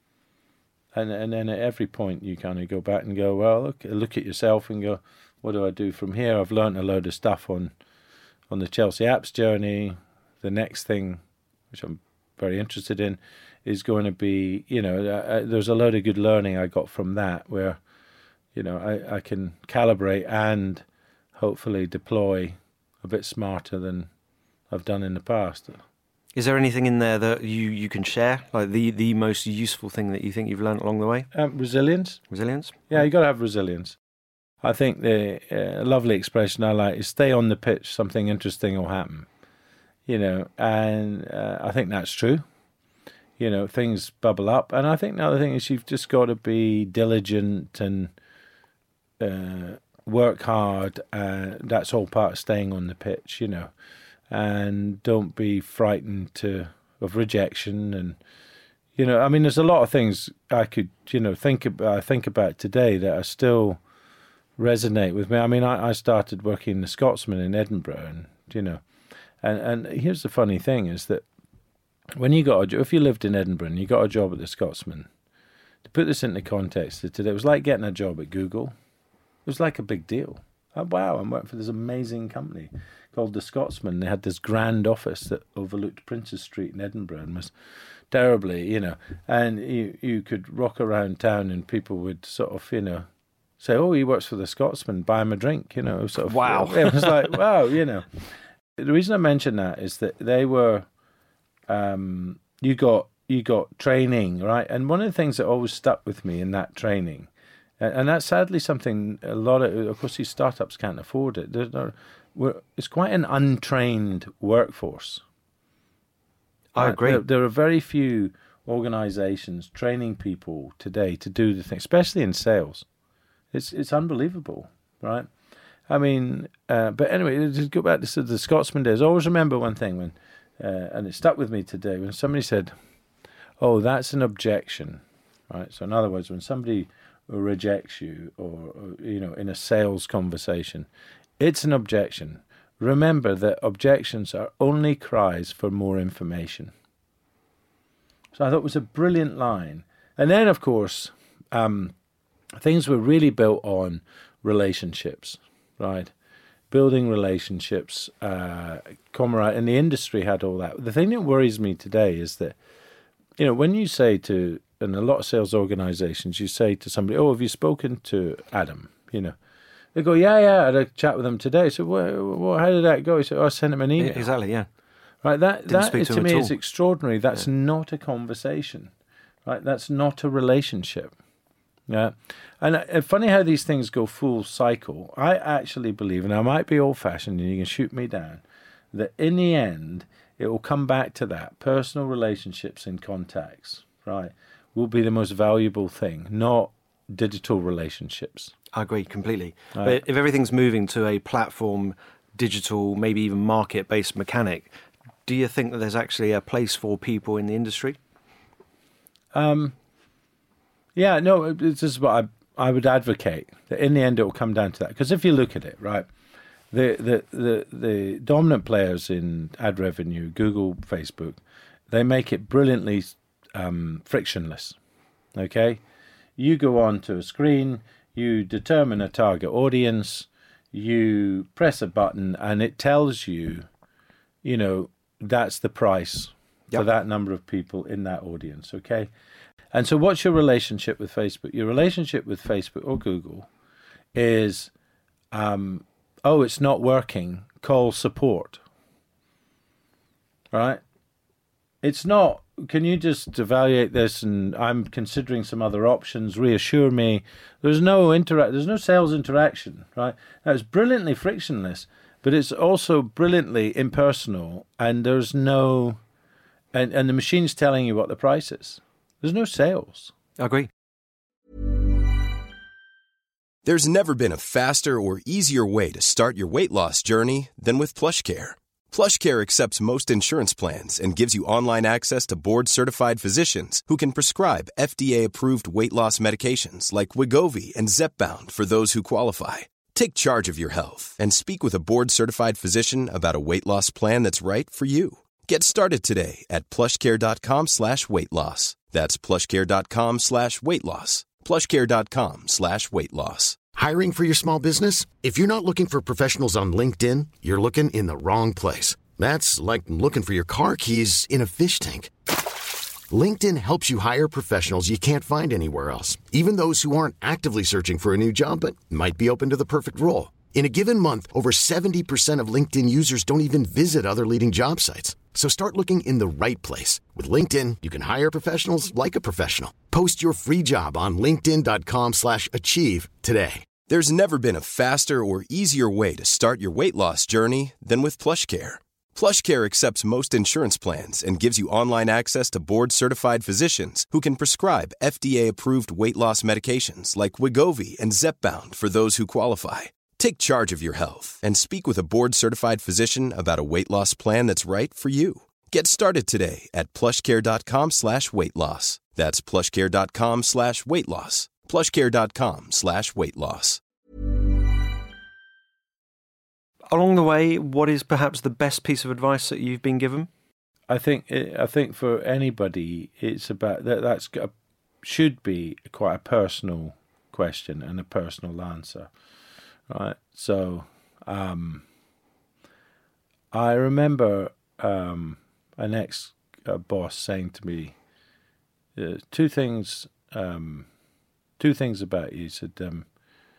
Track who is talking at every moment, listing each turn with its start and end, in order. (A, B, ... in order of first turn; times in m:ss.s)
0:00.9-0:07.7 A
0:08.5-0:17.8 A
0:18.5-0:20.8 A
0:21.3-0:24.1 A
0:24.7-0:25.8 A
0:26.3-0:31.3 B
0:31.3-0:32.2 A
0:32.3-0:32.9 B
0:32.9-0:34.0 A
0:34.6-0:39.3 A
0:40.1-0:42.4 A
0:43.4-0:48.1 A
0:49.2-0:53.7 A
0:54.3-0:58.2 A
0:59.0-1:03.8 A
1:04.6-1:08.8 A
1:09.4-1:11.2 A
1:12.2-1:15.1 A
1:15.8-1:18.7 A
1:19.4-1:27.5 A
1:28.1-1:33.0 A
1:33.6-1:38.2 A
1:36.3-1:37.1 B
1:38.8-1:40.8 A
1:41.7-1:47.3 A
1:47.8-1:55.2 A
1:56.7-1:57.2 B
1:56.8-2:02.8 A
2:03.5-2:05.3 A
2:05.9-2:12.7 A
2:13.6-2:20.9 A
2:21.4-2:26.7 A
2:28.3-2:31.9 A
2:32.6-2:36.1 A
2:36.7-2:42.6 A
2:43.4-2:49.3 A
2:49.9-2:54.3 A
2:54.0-2:54.7 B
2:55.2-2:58.9 A
2:55.7-2:56.5 B
2:59.4-3:01.1 A
3:01.9-3:18.5 A
3:18.7-3:24.7 B
3:19.7-3:20.0 A
3:25.2-3:28.0 B
3:29.3-3:29.7 A
3:31.0-3:36.1 A
3:36.7-3:44.8 A
3:45.4-3:45.8 A
3:46.4-3:53.7 A
3:54.4-3:59.1 A
3:59.7-4:03.5 A
4:04.1-4:04.7 A
4:05.3-4:08.6 A
4:10.5-4:10.8 A
4:11.8-4:26.0 A
4:26.7-4:30.1 A
4:30.4-4:30.7 B
4:33.6-5:03.6 C
5:03.7-5:12.1 D
5:13.1-5:33.7 D
5:33.8-6:03.8 C
6:06.9-6:10.3 B
6:10.9-6:14.5 A
6:15.0-6:19.1 A
6:19.9-6:21.8 A
6:23.5-6:27.9 A
6:29.0-6:30.9 A
6:31.6-6:33.1 A